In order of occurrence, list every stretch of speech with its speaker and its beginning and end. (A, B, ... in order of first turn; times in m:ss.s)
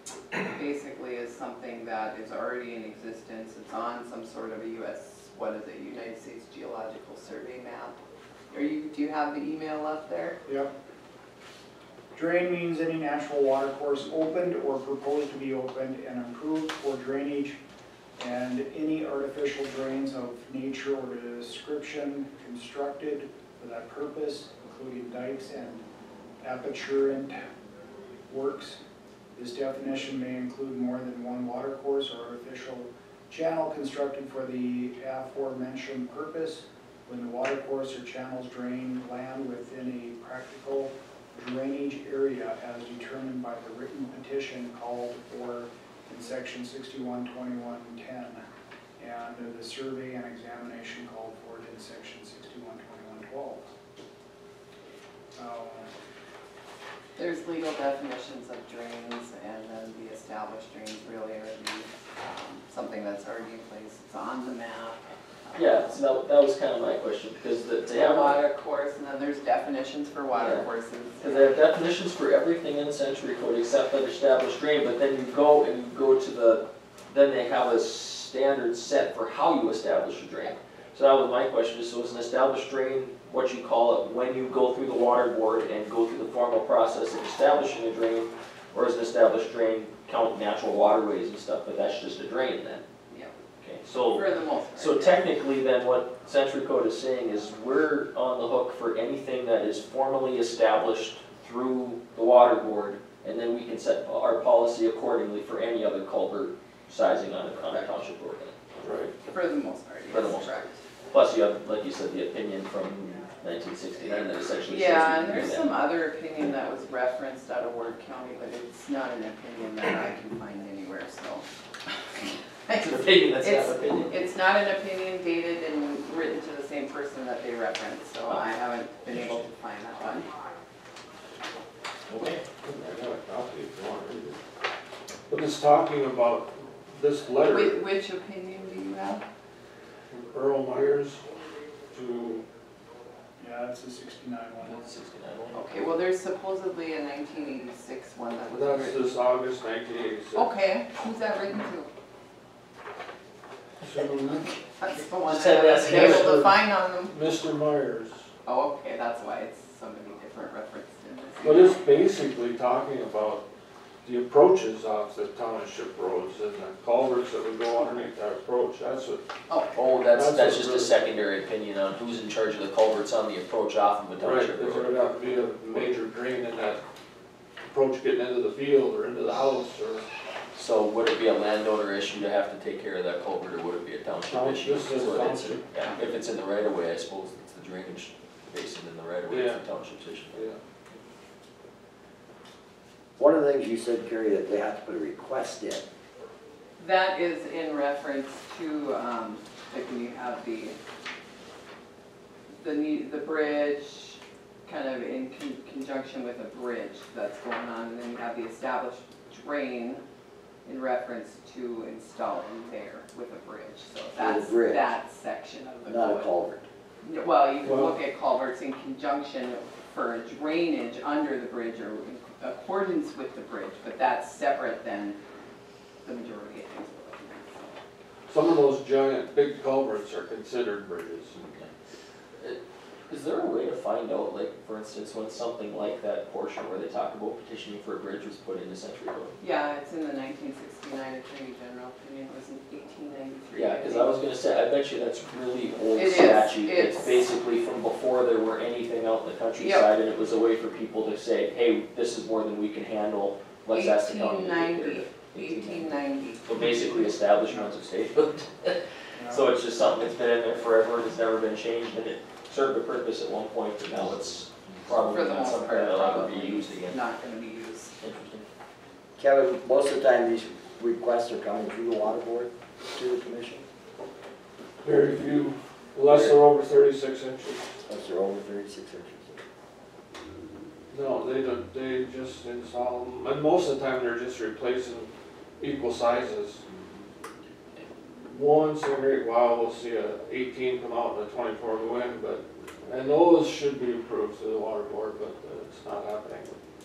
0:00.4-0:08.0 A
0:08.5-0:10.4 A
0:10.4-0:10.7 B
0:12.1-0:17.6 B
0:18.2-0:25.8 B
0:26.4-0:27.4 B
0:28.3-0:28.8 B
0:29.3-0:48.4 B
0:49.0-0:53.7 B
0:55.4-0:55.9 B
0:57.2-1:06.0 A
1:05.6-1:08.4 C
1:07.9-1:11.6 A
1:10.3-1:10.6 C
1:11.2-1:32.8 C
1:33.1-1:33.4 A
1:33.6-1:48.5 C
1:34.0-1:35.2 A
1:47.7-1:48.0 A
1:48.8-1:49.1 D
1:49.3-1:50.8 A
1:50.1-1:50.5 C
1:51.1-1:55.7 C
1:54.6-2:10.3 A
2:02.7-2:04.2 C
2:09.1-2:09.4 C
2:12.1-2:12.4 C
2:12.6-2:14.4 D
2:15.3-2:17.8 D
2:17.5-2:19.2 A
2:20.1-2:21.2 D
2:21.9-2:22.4 D
2:23.4-2:24.8 B
2:24.6-2:25.6 C
2:25.5-2:29.0 A
2:28.5-2:30.5 D
2:30.3-2:31.9 A
2:33.8-2:34.6 D
2:34.7-2:37.1 A
2:35.2-2:36.4 C
2:35.8-2:38.2 D
2:38.4-2:41.8 A
2:41.4-2:43.4 D
2:44.0-2:49.2 D
2:49.5-2:49.7 A
2:49.7-2:54.9 C
2:50.1-2:51.0 D
2:54.2-2:56.8 D
2:57.7-3:00.1 D
3:00.5-3:10.4 C
3:04.3-3:05.7 D
3:09.3-3:09.6 D
3:10.3-3:10.6 D
3:13.2-3:15.8 E
3:16.8-3:20.8 A
3:22.6-3:30.0 A
3:30.6-3:36.3 A
3:34.2-3:34.8 E
3:35.8-3:36.6 E
3:37.0-3:45.2 A
3:37.6-3:37.9 D
3:46.0-3:47.8 A
3:48.3-3:51.5 D
3:52.4-3:59.3 C
3:59.4-4:04.2 A
4:03.5-4:27.0 C
4:05.9-4:07.2 A
4:09.6-4:09.9 A
4:13.7-4:16.9 A
4:17.4-4:17.7 B
4:19.2-4:19.4 B
4:25.1-4:27.9 A
4:28.0-4:28.4 C
4:29.2-4:33.6 E
4:34.8-4:37.8 D
4:36.0-4:36.4 E
4:37.8-4:39.4 E
4:40.9-4:46.6 D
4:48.3-4:56.6 D